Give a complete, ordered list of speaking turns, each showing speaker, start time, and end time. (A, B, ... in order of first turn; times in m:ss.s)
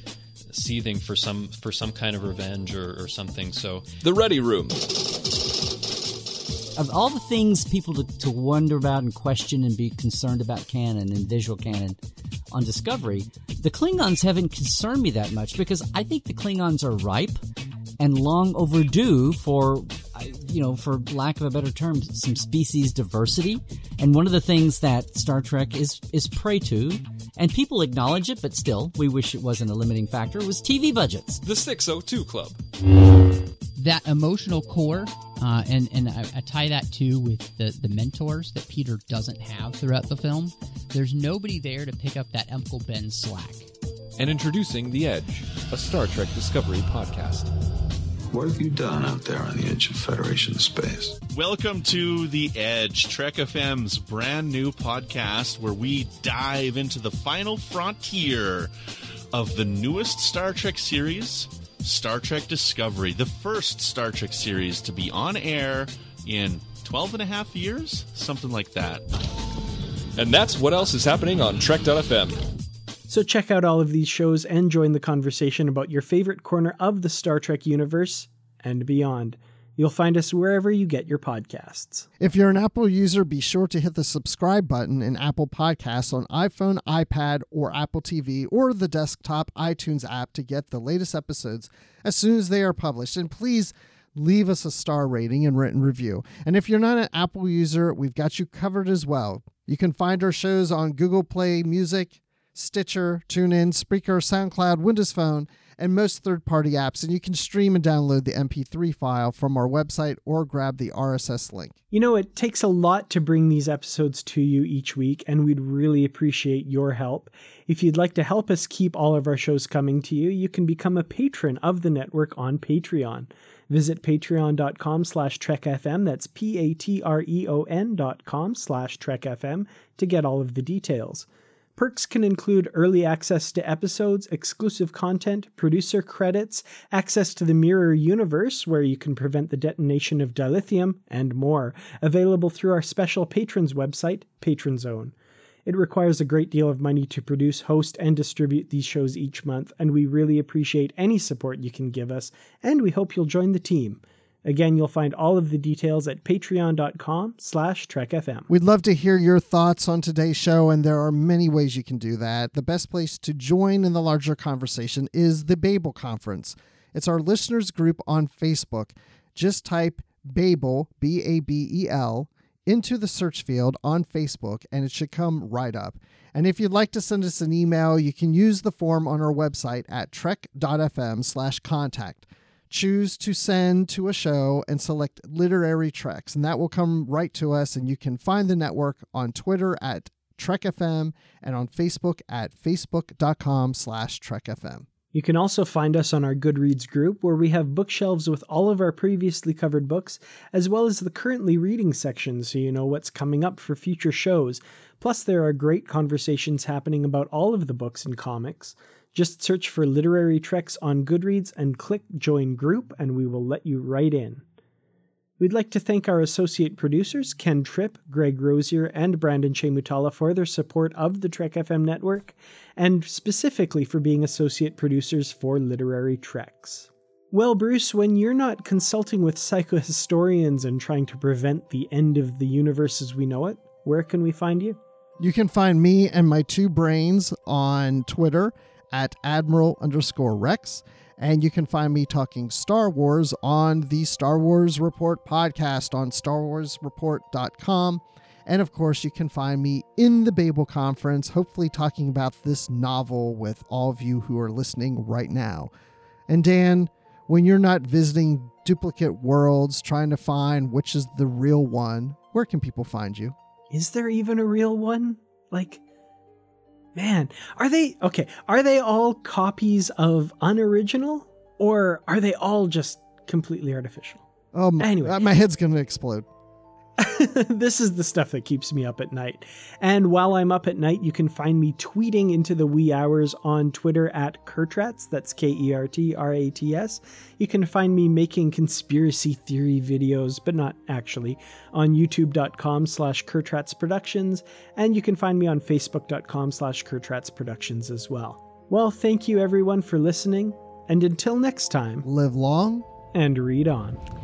0:00.5-0:03.9 A
0:04.0-0:04.8 B
0:06.8-0:12.0 C
0:12.5-0:17.4 C
0:18.0-0:31.4 C
0:31.4-0:32.6 B
0:33.8-0:43.7 D
0:44.2-0:44.6 E
0:44.5-0:47.4 B
0:45.2-0:45.7 E
0:48.3-0:51.2 F
0:51.3-0:58.7 E
0:59.3-1:09.0 E
1:10.2-1:12.4 B
1:13.1-1:22.1 G
1:22.2-1:51.7 H
1:51.9-2:25.1 G
2:25.6-2:38.5 G
2:38.5-3:14.8 H
3:15.1-3:34.4 G
3:35.4-3:54.8 G
3:55.2-4:15.7 H
4:16.3-4:23.3 H
4:23.7-4:25.8 G
4:26.9-4:34.2 G
4:34.5-4:36.3 H
4:34.8-4:35.2 G
4:37.0-5:02.0 G
5:02.0-5:02.8 H
5:03.1-5:04.0 G